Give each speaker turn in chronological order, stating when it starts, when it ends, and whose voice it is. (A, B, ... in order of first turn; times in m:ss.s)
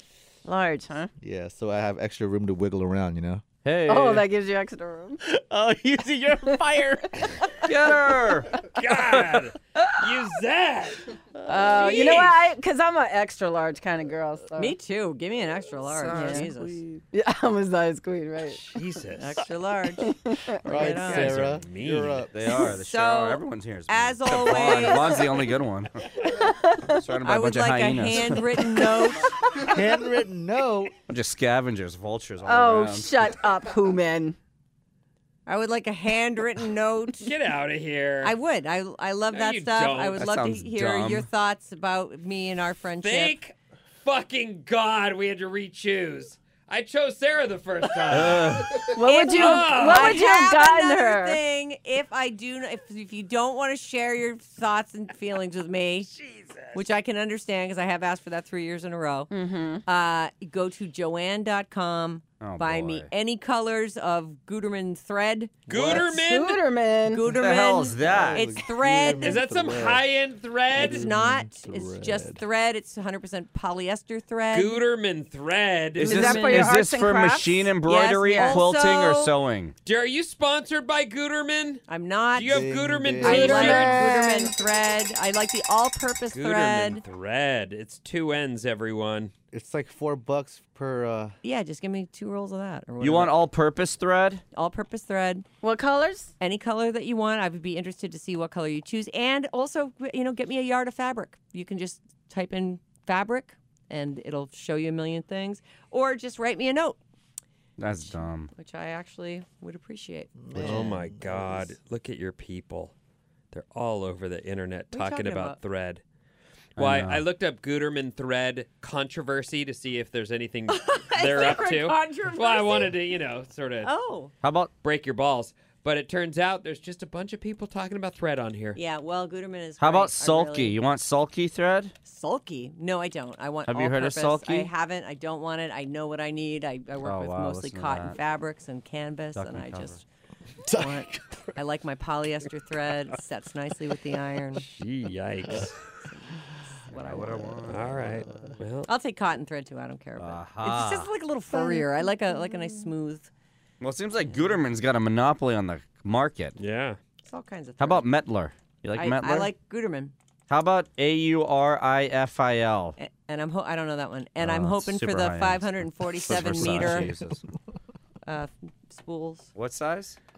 0:00.4-0:01.1 A
0:01.2-0:03.4 B
0:03.6-0:04.3 C
0:03.9-0:05.2 A
0:05.2-0:07.3 B
0:06.4-0:06.8 A
0:07.6-0:08.7 C
0:08.6-0:11.1 D
0:11.5-0:14.8 A
0:11.6-0:11.9 B
0:11.8-0:12.3 D
0:14.6-0:16.8 E
0:16.0-0:18.8 A
0:18.6-0:19.4 D
0:19.2-0:20.1 E
0:20.0-0:20.6 A
0:20.6-0:21.5 E
0:20.6-0:22.4 B
0:21.0-0:22.3 D
0:22.3-0:26.0 C
0:22.6-0:25.4 E
0:26.4-0:27.0 A
0:27.0-0:28.5 C
0:27.2-0:29.3 E
0:29.7-0:30.9 B
0:31.1-0:33.3 C
0:32.4-0:34.4 A
0:35.5-0:37.3 E
0:37.2-0:38.3 D
0:38.2-0:43.4 E
0:39.3-0:40.2 D
0:40.2-0:41.3 C
0:43.0-0:50.2 D
0:48.1-0:48.9 C
0:48.9-0:51.4 A
0:49.0-0:56.1 E
0:56.1-0:56.8 D
0:56.7-0:59.3 E
0:59.3-0:59.8 A
0:59.9-1:05.7 E
1:02.4-1:03.1 C
1:05.7-1:06.1 B
1:05.7-1:06.6 D
1:05.8-1:07.4 A
1:07.1-1:09.5 E
1:07.3-1:08.5 C
1:08.0-1:10.1 B
1:09.2-1:11.0 D
1:10.7-1:12.4 B
1:10.7-1:14.8 E
1:14.5-1:16.2 D
1:16.0-1:19.7 C
1:16.0-1:17.8 A
1:16.0-1:16.8 E
1:17.8-1:19.3 E
1:18.3-1:18.7 A
1:19.8-1:24.1 D
1:21.9-1:22.7 E
1:22.5-1:23.7 B
1:23.2-1:27.0 E
1:23.3-1:24.5 A
1:26.3-1:29.3 D
1:29.5-1:31.4 B
1:31.4-1:33.4 E
1:33.0-1:34.4 C
1:34.5-1:35.5 E
1:35.6-1:36.3 A
1:36.4-1:47.0 E
1:47.8-1:48.5 C
1:48.0-1:50.9 E
1:50.4-1:51.8 B
1:50.6-1:52.9 D
1:53.5-1:56.0 D
1:54.9-1:55.6 E
1:56.8-2:03.9 D
1:56.8-1:57.2 C
2:00.7-2:03.0 E
2:03.8-2:04.3 E
2:04.4-2:04.7 C
2:04.8-2:08.8 D
2:08.8-2:10.8 E
2:09.8-2:12.0 C
2:12.0-2:20.0 E
2:13.7-2:14.7 C
2:17.0-2:18.2 C
2:19.4-2:20.0 C
2:20.6-2:21.6 B
2:20.7-2:24.7 E
2:24.7-2:25.8 D
2:26.1-2:27.7 E
2:26.9-2:28.1 C
2:27.7-2:28.9 D
2:27.8-2:28.6 B
2:28.9-2:33.3 E
2:30.2-2:31.1 C
2:31.5-2:31.9 B
2:33.8-2:36.6 C
2:36.6-2:37.0 D
2:37.3-2:38.1 E
2:37.8-2:39.5 C
2:39.0-2:40.1 E
2:40.5-2:43.0 C
2:43.0-2:47.1 E
2:44.4-2:47.4 C
2:46.3-2:47.4 B
2:48.2-2:49.5 E
2:49.6-2:50.2 C